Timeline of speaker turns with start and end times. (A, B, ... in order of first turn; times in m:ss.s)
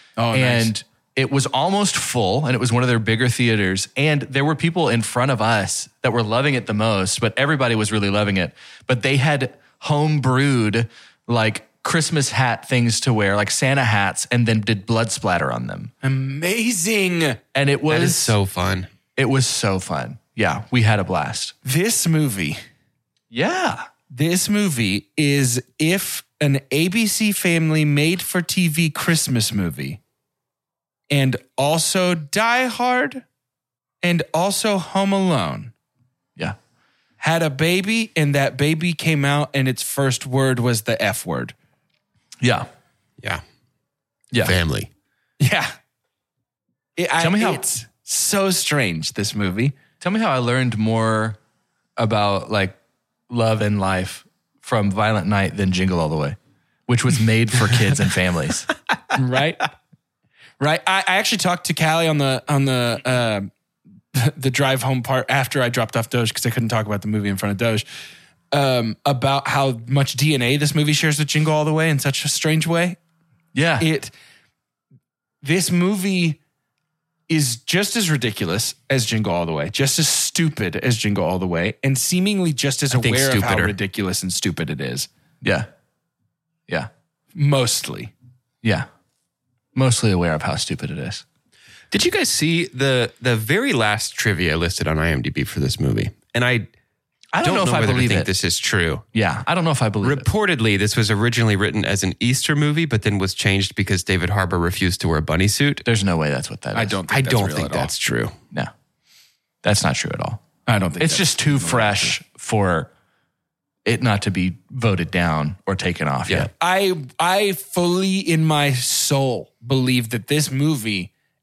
0:00.2-0:00.7 A
0:00.3-0:15.9 B
0:16.0-0:17.4 A
0:17.5-0:18.4 B
0:17.9-0:18.9 C
0:19.2-0:21.5 B
0:21.6-0:22.6 A
0:23.3-0:23.8 B
0:24.1-0:30.0 A
0:31.1-0:33.2 A
0:34.0-0:35.7 A
0:37.2-0:41.5 A
0:42.4-0:42.7 B
0:44.4-0:44.9 C
0:45.4-0:45.7 A
0:47.0-0:49.7 A
0:47.2-0:47.6 B
0:50.0-0:51.4 B
0:52.0-0:52.8 B
0:53.3-0:56.4 B
0:56.9-0:58.7 B
0:59.1-0:59.6 A
1:00.6-1:03.5 A
1:04.1-1:07.8 A
1:08.5-1:13.0 A
1:13.5-1:13.9 B
1:13.8-1:14.1 A
1:15.4-1:16.4 A
1:17.3-1:25.1 A
1:22.9-1:23.7 C
1:25.4-1:25.7 B
1:27.4-1:28.1 A
1:29.7-1:31.2 B
1:31.9-1:36.7 C
1:37.3-1:38.3 B
1:37.4-1:39.0 C
1:39.1-1:40.3 B
1:40.0-1:45.8 C
1:45.8-1:47.0 B
1:46.7-1:47.9 A
1:47.1-1:48.3 C
1:49.6-1:50.4 B
1:50.7-1:52.1 A
1:51.0-1:52.9 B
1:53.8-1:56.5 B
1:56.6-2:01.1 A